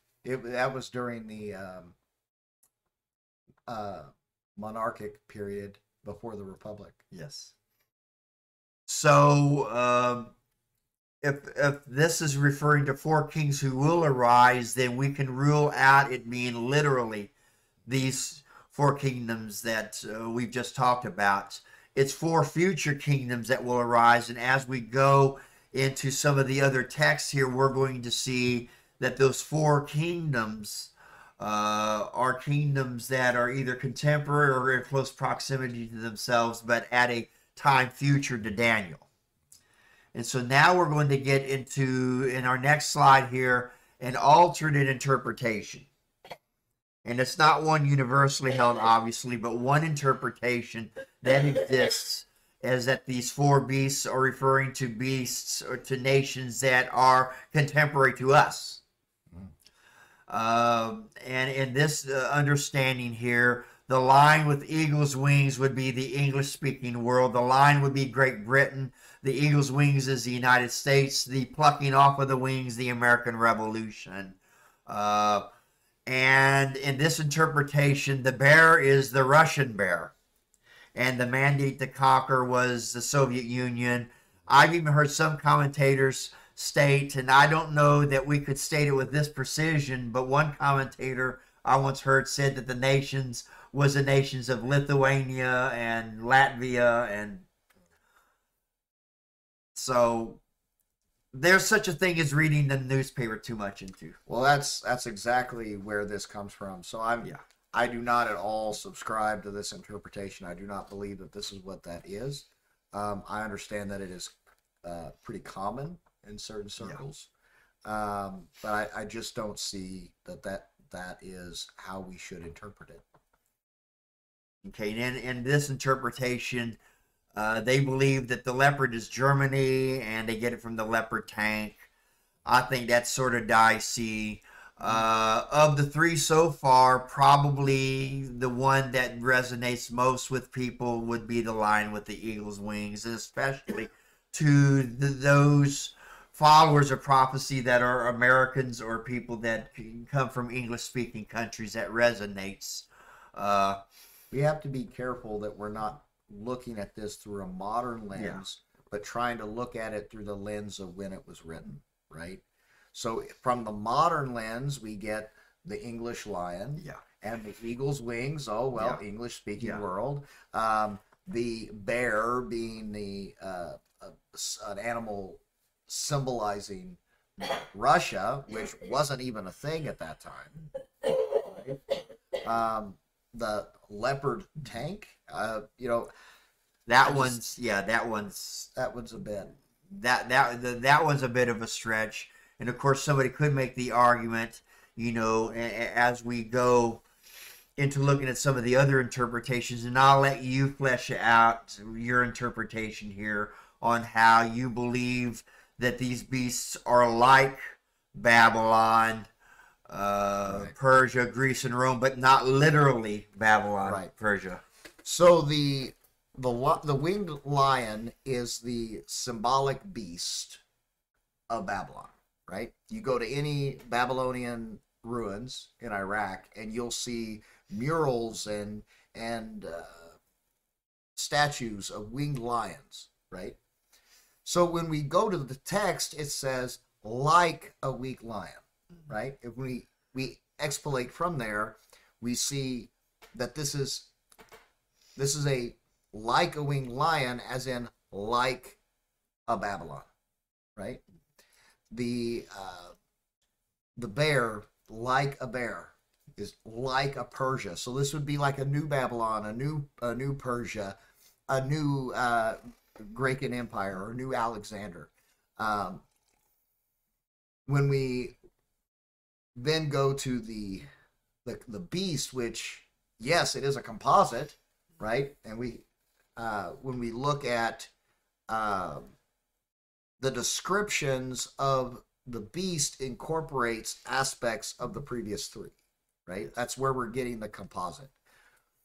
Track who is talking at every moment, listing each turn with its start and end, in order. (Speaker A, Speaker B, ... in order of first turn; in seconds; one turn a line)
Speaker A: 0.2-2.0
Speaker A: 3.7-7.0
Speaker B: 7.1-7.5
Speaker B: 8.9-10.3
Speaker B: 11.2-17.3
Speaker B: 17.9-39.1
Speaker B: 40.1-45.9
Speaker B: 47.0-58.8
Speaker B: 60.3-75.5
Speaker B: 76.1-80.1
Speaker B: 81.0-97.5
Speaker B: 99.8-100.4
Speaker B: 101.3-104.2
Speaker A: 104.3-117.3
Speaker A: 117.8-123.0
Speaker B: 124.6-126.8
Speaker B: 127.3-131.9
Speaker B: 132.5-153.8
Speaker A: 134.8-135.1
Speaker A: 154.3-162.4
Speaker B: 158.2-158.4
Speaker A: 162.9-180.7
Speaker B: 168.8-169.0
Speaker A: 181.3-181.8
Speaker A: 182.4-186.1
Speaker B: 186.9-188.7
Speaker A: 187.0-187.4
Speaker A: 188.8-189.6
Speaker B: 189.9-197.0
Speaker B: 197.8-209.3
Speaker B: 209.9-214.6
Speaker A: 210.4-210.7
Speaker A: 213.8-214.1
Speaker A: 215.0-220.6
Speaker A: 221.5-230.2
Speaker A: 231.2-233.6
Speaker A: 234.4-244.1
Speaker A: 245.2-248.8
Speaker A: 249.5-250.1
Speaker A: 250.8-251.0
Speaker A: 251.9-252.9
Speaker A: 254.0-261.0
Speaker A: 261.5-266.0
Speaker A: 267.7-268.4
Speaker A: 269.6-270.9
Speaker A: 271.4-277.9
Speaker A: 278.5-279.1
Speaker A: 280.2-288.1